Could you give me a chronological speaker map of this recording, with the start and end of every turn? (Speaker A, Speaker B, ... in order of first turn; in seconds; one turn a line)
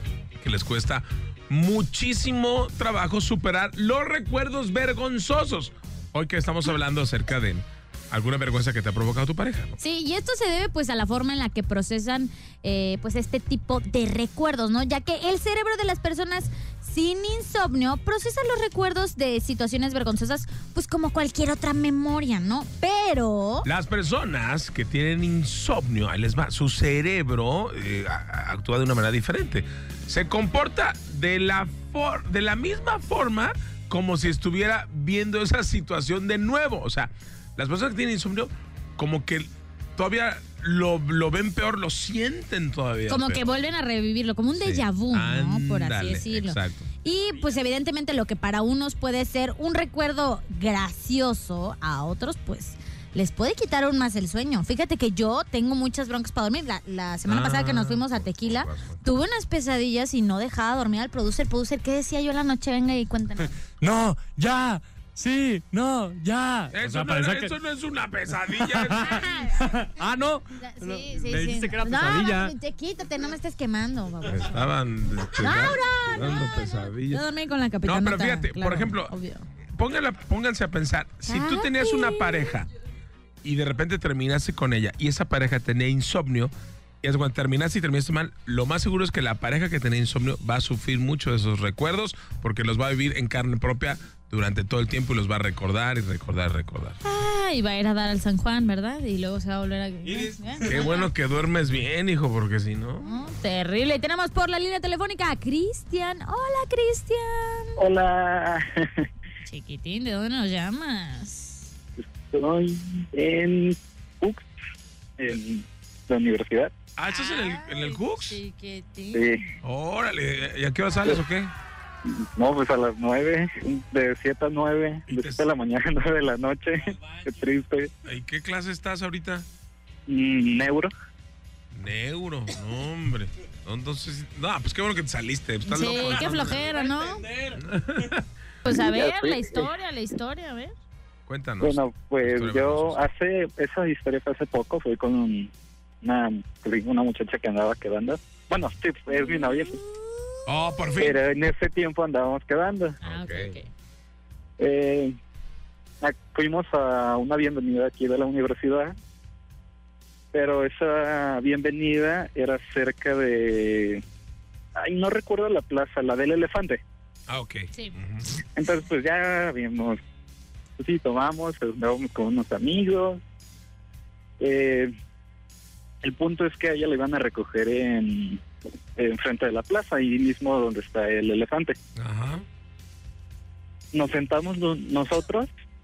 Speaker A: 0.4-9.8
Speaker B: 9.8-23.7
Speaker A: 23.6-43.5
Speaker B: 43.1-63.5
Speaker A: 44.6-46.9
Speaker A: 57.3-59.0
Speaker C: 63.8-67.5
Speaker A: 66.7-69.1
Speaker C: 68.5-72.5
Speaker B: 69.0-69.6
Speaker B: 70.6-74.5
Speaker A: 74.3-77.2
Speaker B: 75.4-79.5
Speaker A: 77.8-79.1
Speaker A: 79.7-82.7
Speaker B: 81.2-82.5
Speaker A: 83.4-97.0
Speaker B: 97.0-101.1
Speaker A: 100.6-103.1
Speaker B: 103.0-107.8
Speaker D: 107.8-109.0
Speaker B: 109.5-111.7
Speaker D: 112.0-114.5
Speaker D: 115.2-116.7
Speaker A: 117.0-118.4
Speaker B: 117.1-119.5
Speaker D: 119.1-119.4
Speaker A: 119.6-121.5
Speaker D: 122.1-127.9
Speaker A: 125.1-125.5
Speaker A: 128.1-129.5
Speaker D: 130.1-130.9
Speaker A: 131.7-136.8
Speaker B: 135.7-137.3
Speaker A: 137.5-138.3
Speaker B: 138.7-140.7
Speaker D: 138.7-139.7
Speaker A: 141.3-143.0
Speaker D: 141.6-145.5
Speaker D: 146.0-149.8
Speaker B: 149.1-149.8
Speaker A: 150.5-151.2
Speaker D: 151.0-153.0
Speaker A: 153.0-153.5
Speaker B: 153.0-153.7
Speaker D: 154.6-155.2
Speaker D: 156.0-158.9
Speaker D: 160.3-164.0
Speaker D: 164.8-166.8
Speaker A: 167.3-168.3
Speaker D: 168.6-170.0
Speaker D: 170.8-173.2
Speaker D: 174.4-174.9
Speaker D: 176.0-178.4
Speaker D: 179.0-181.8
Speaker A: 182.0-182.4
Speaker D: 183.9-185.5